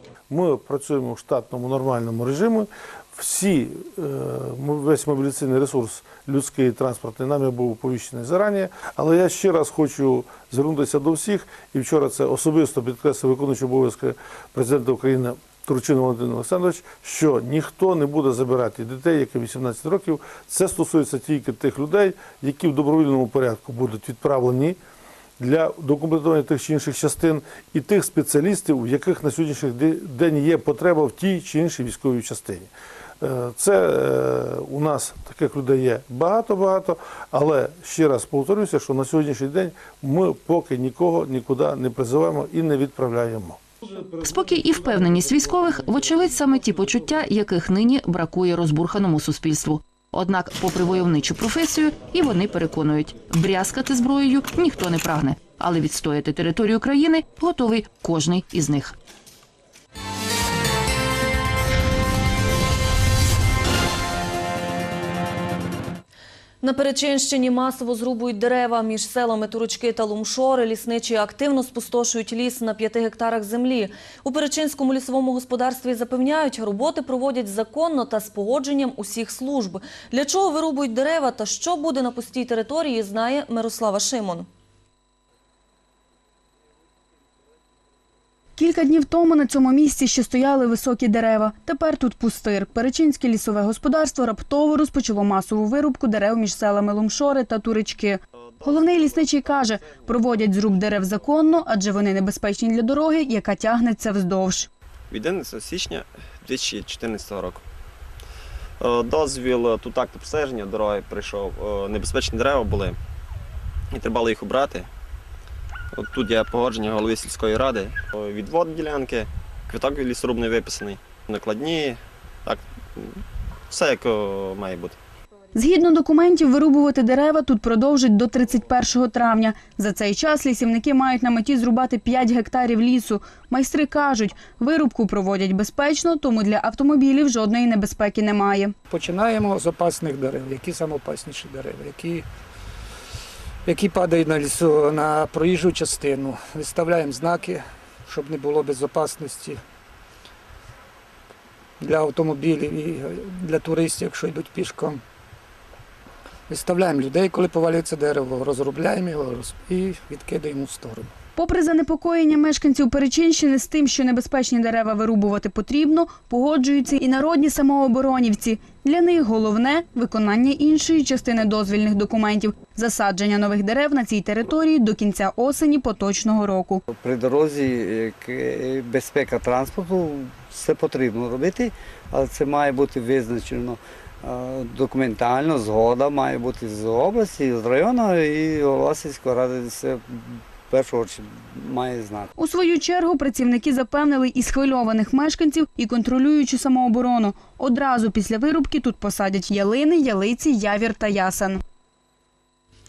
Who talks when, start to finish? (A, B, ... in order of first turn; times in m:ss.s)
0:00.3-0:24.8 A
0:25.4-0:32.7 A
0:33.2-0:43.6 A
0:43.9-0:58.9 B
1:06.6-1:24.5 C
1:28.6-1:44.7 D
1:38.4-1:39.3 E
1:45.1-1:47.6 E
1:48.8-1:53.0 E
1:53.9-1:54.8 E
1:56.0-2:03.1 E
2:03.7-2:04.9 E
2:05.5-2:18.7 D
2:18.9-2:22.2 F
2:23.6-2:29.6 F
2:31.8-2:35.0 F
2:36.5-2:41.1 F
2:41.4-2:56.8 D
2:56.9-3:12.3 G
3:12.4-3:21.6 D